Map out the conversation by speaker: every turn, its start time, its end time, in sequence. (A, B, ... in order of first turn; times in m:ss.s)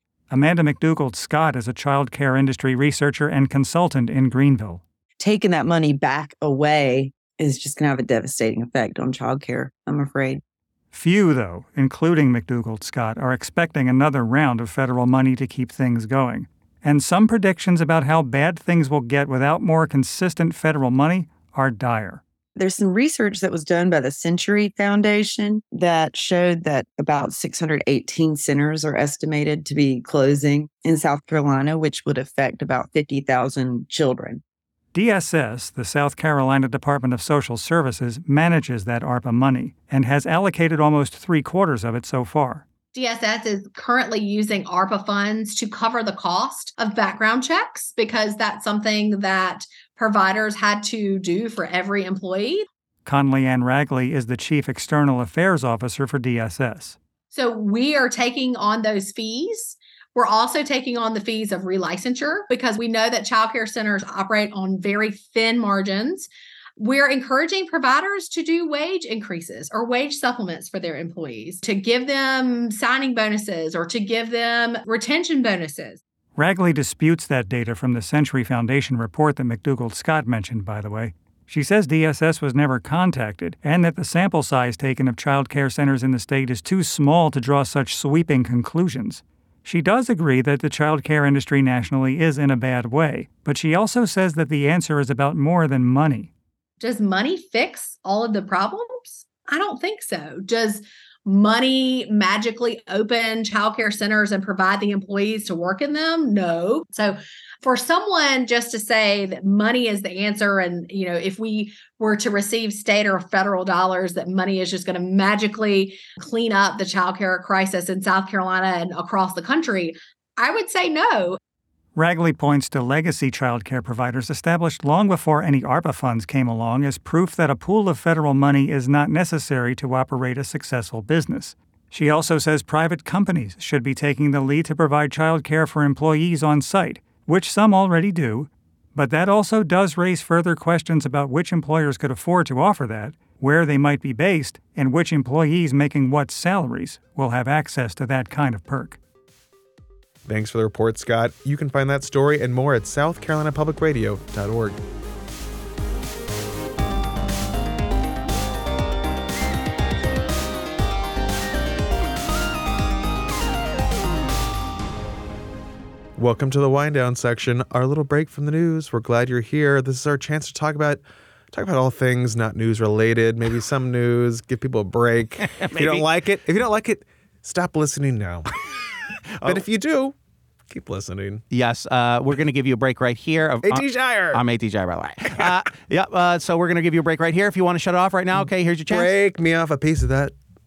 0:00.3-0:04.8 A
0:05.2-0:10.4 B
0:10.9-0:22.2 A
0:22.6-0:34.4 B
0:34.9-0:42.6 A
0:43.0-0:52.7 C
0:53.0-0:57.0 A
0:57.3-1:16.0 C
1:16.4-1:36.3 A
1:36.8-2:01.4 C
2:02.0-2:29.0 A
2:30.3-2:34.8 D
2:46.2-2:58.5 D
2:55.5-2:56.0 E
2:59.4-3:00.2 D
3:00.7-3:01.4 D
3:01.5-3:09.1 E
3:03.6-3:04.4 D
3:08.9-3:10.4 D